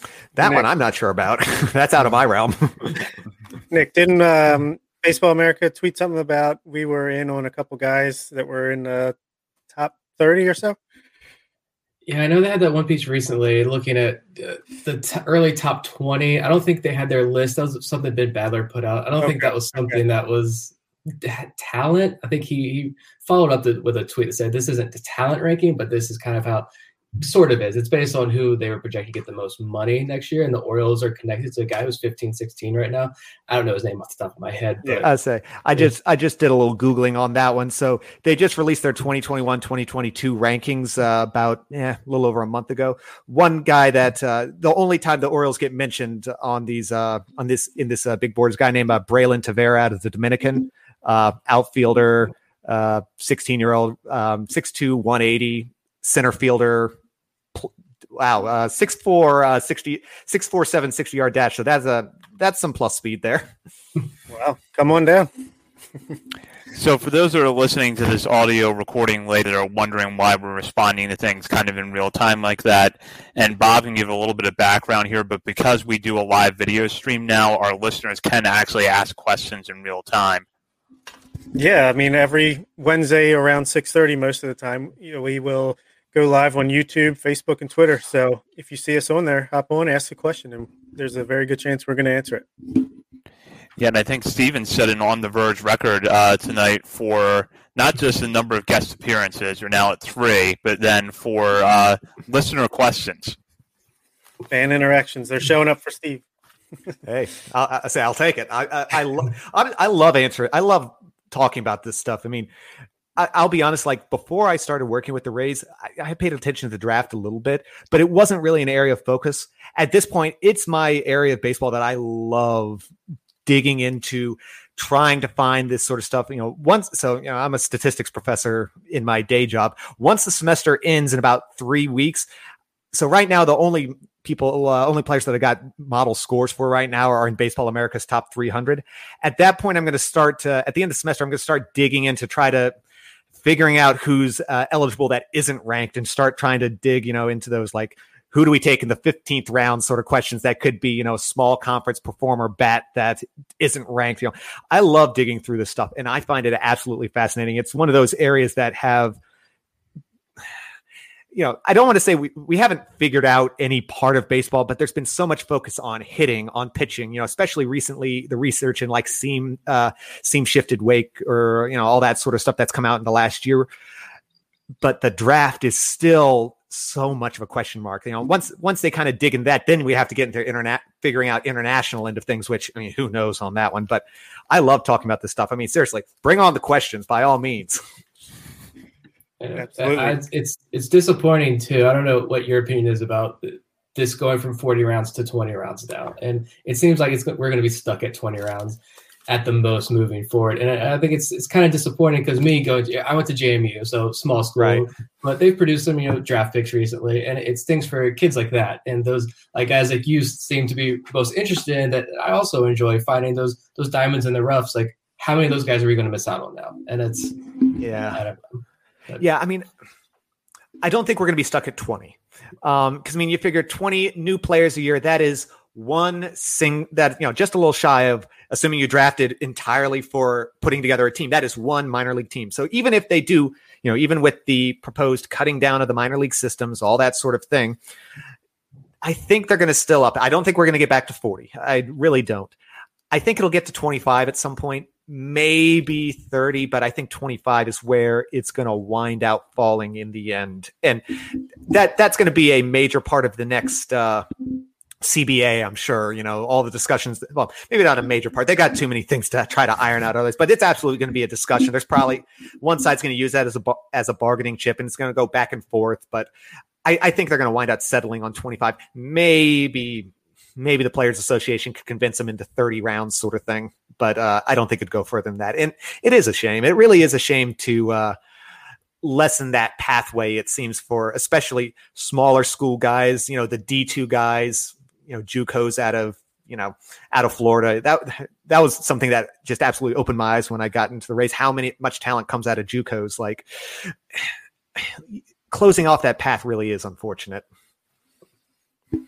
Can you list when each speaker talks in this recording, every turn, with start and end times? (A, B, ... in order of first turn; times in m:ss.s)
0:00.3-0:03.1 A
0:00.4-0:00.7 B
0:03.7-0:09.1 B
0:09.7-0:10.8 B
0:12.1-0:26.7 C
0:19.2-0:20.0 B
0:27.2-0:35.1 C
0:35.0-0:57.0 A
0:57.6-1:03.5 A
1:04.3-1:05.3 B
1:06.7-1:20.4 D
1:21.5-1:32.5 B
1:33.8-1:43.4 D
1:44.5-1:46.2 B
1:47.1-1:52.5 A
1:53.2-2:02.9 A
2:03.5-2:12.3 A
2:12.9-2:22.7 A
2:23.4-2:39.2 A
2:41.3-2:53.7 A
2:54.8-3:07.8 A
3:09.4-3:37.4 C
3:09.6-3:10.2 B
3:24.6-3:24.8 A
3:37.8-3:38.2 A
3:37.9-3:39.2 C
3:39.2-3:39.7 A
3:40.8-3:57.8 A
3:59.0-4:02.5 A
4:03.1-4:11.0 A
4:11.6-4:14.5 A
4:15.0-4:26.3 A
4:26.8-4:38.2 A
4:39.0-4:57.4 A